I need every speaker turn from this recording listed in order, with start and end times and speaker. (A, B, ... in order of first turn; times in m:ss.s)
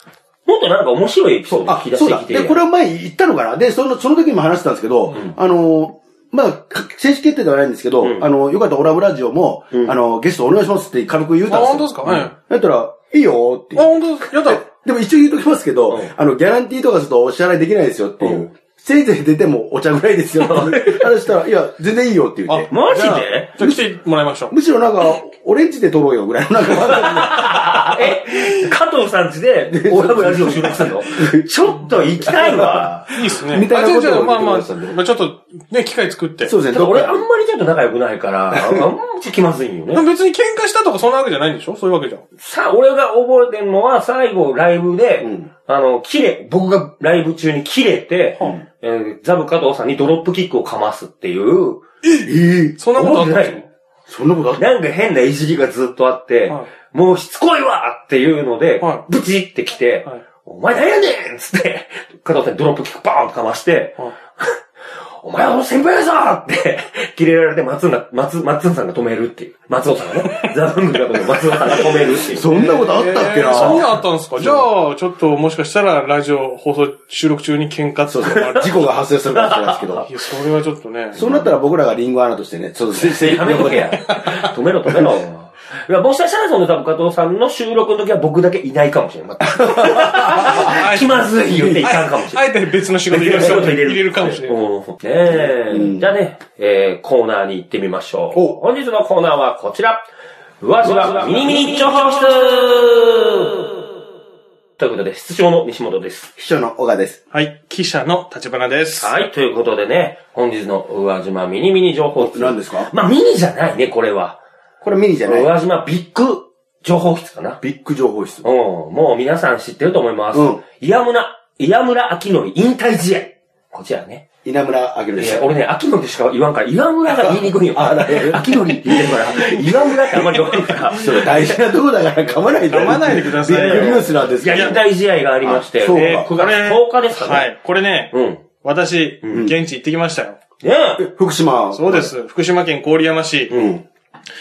0:00.4-0:02.6 A
0:01.5-0:22.7 B
0:05.1-0:05.4 A
0:08.0-0:08.2 A
0:11.5-0:12.3 C
0:12.0-0:12.3 A
0:13.8-0:14.6 C
0:18.2-0:18.5 A
0:20.4-0:21.1 A
0:22.5-0:24.5 C
0:22.7-0:23.5 A
0:24.5-0:27.9 B
0:26.8-0:33.1 A
0:29.7-0:31.5 B
0:32.2-0:35.0 B
0:33.1-0:36.5 C
0:36.4-0:37.2 B
0:36.7-0:40.0 A
0:38.6-0:38.8 B
0:39.9-0:42.2 C
0:42.4-0:51.8 A
0:45.2-0:45.5 B
0:52.0-0:53.6 C
0:52.2-0:52.8 B
0:52.9-0:53.6 A
0:54.1-0:54.6 B
0:54.6-1:04.6 A
0:58.8-0:59.0 C
1:05.2-1:12.5 A
1:12.1-1:14.6 B
1:12.4-1:19.0 C
1:13.5-1:13.9 A
1:18.1-1:20.1 B
1:18.3-1:18.6 A
1:19.3-1:20.0 A
1:20.0-1:21.2 C
1:21.1-1:24.0 B
1:21.1-1:21.5 A
1:22.9-1:32.5 A
1:24.1-1:24.4 C
1:29.5-1:30.8 B
1:30.3-1:34.6 C
1:31.4-1:31.8 B
1:33.1-1:40.0 A
1:35.3-1:36.1 B
1:38.3-1:38.6 B
1:40.6-1:43.7 A
1:41.0-1:41.4 B
1:41.2-1:42.0 C
1:44.8-1:46.3 A
1:46.4-1:47.2 B
1:47.3-1:49.1 C
1:49.0-1:54.4 A
1:52.2-1:52.9 B
1:54.8-1:55.5 B
1:55.2-1:57.6 A
1:57.6-1:58.4 B
1:58.4-2:04.2 A
2:00.3-2:00.6 B
2:04.4-2:05.5 B
2:05.2-2:11.3 A
2:07.1-2:14.8 B
2:12.6-2:14.8 C
2:12.8-2:17.5 A
2:15.4-2:16.3 B
2:15.9-2:20.4 C
2:18.1-2:18.4 A
2:20.6-2:21.1 A
2:21.0-2:22.1 B
2:21.7-2:23.7 C
2:23.5-2:23.8 A
2:23.5-2:23.8 B